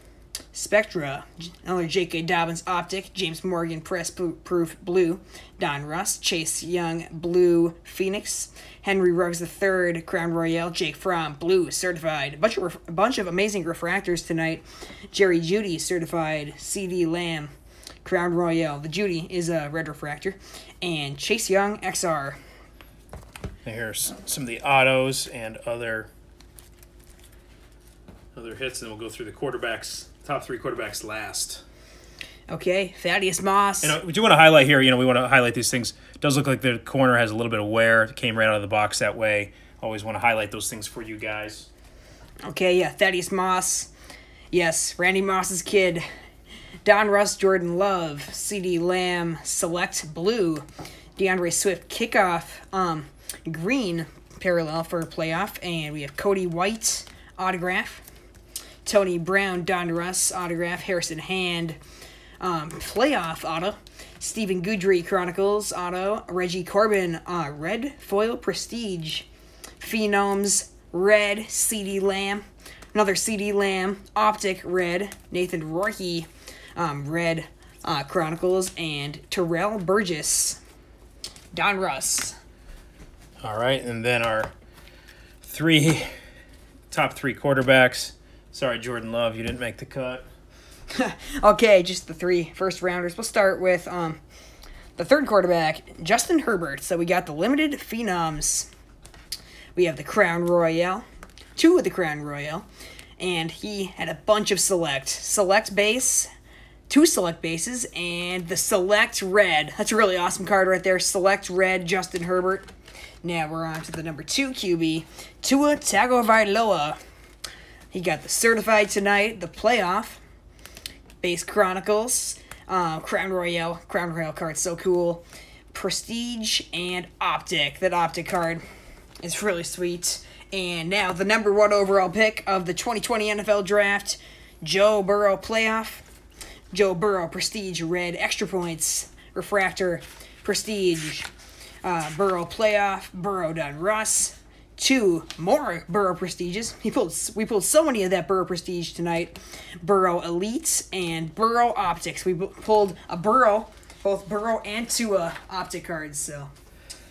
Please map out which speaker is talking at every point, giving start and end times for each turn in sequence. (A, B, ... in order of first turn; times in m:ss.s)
0:00.5-0:17.5 A
0:18.0-0:22.4 A
0:23.6-0:26.1 B
0:28.4-0:31.6 B
0:32.5-0:34.0 A
0:33.8-0:41.7 B
0:42.4-0:43.9 A
0:44.5-0:46.0 A
0:46.8-0:58.0 A
0:58.8-1:01.8 A
1:02.4-1:09.3 A
1:09.8-1:20.6 A
1:21.5-1:22.4 A
1:23.4-1:24.5 B
1:25.4-1:26.1 B
1:26.9-1:30.3 B
1:30.9-1:34.2 A
1:35.0-1:38.7 A
1:39.8-1:41.0 A
1:41.6-1:42.7 A
1:43.2-1:46.3 A
1:46.9-1:52.7 A
1:53.2-1:57.0 A
1:57.9-2:00.2 A
2:01.2-2:08.6 A
2:09.2-2:16.0 A
2:16.7-2:21.3 A
2:21.8-2:36.5 A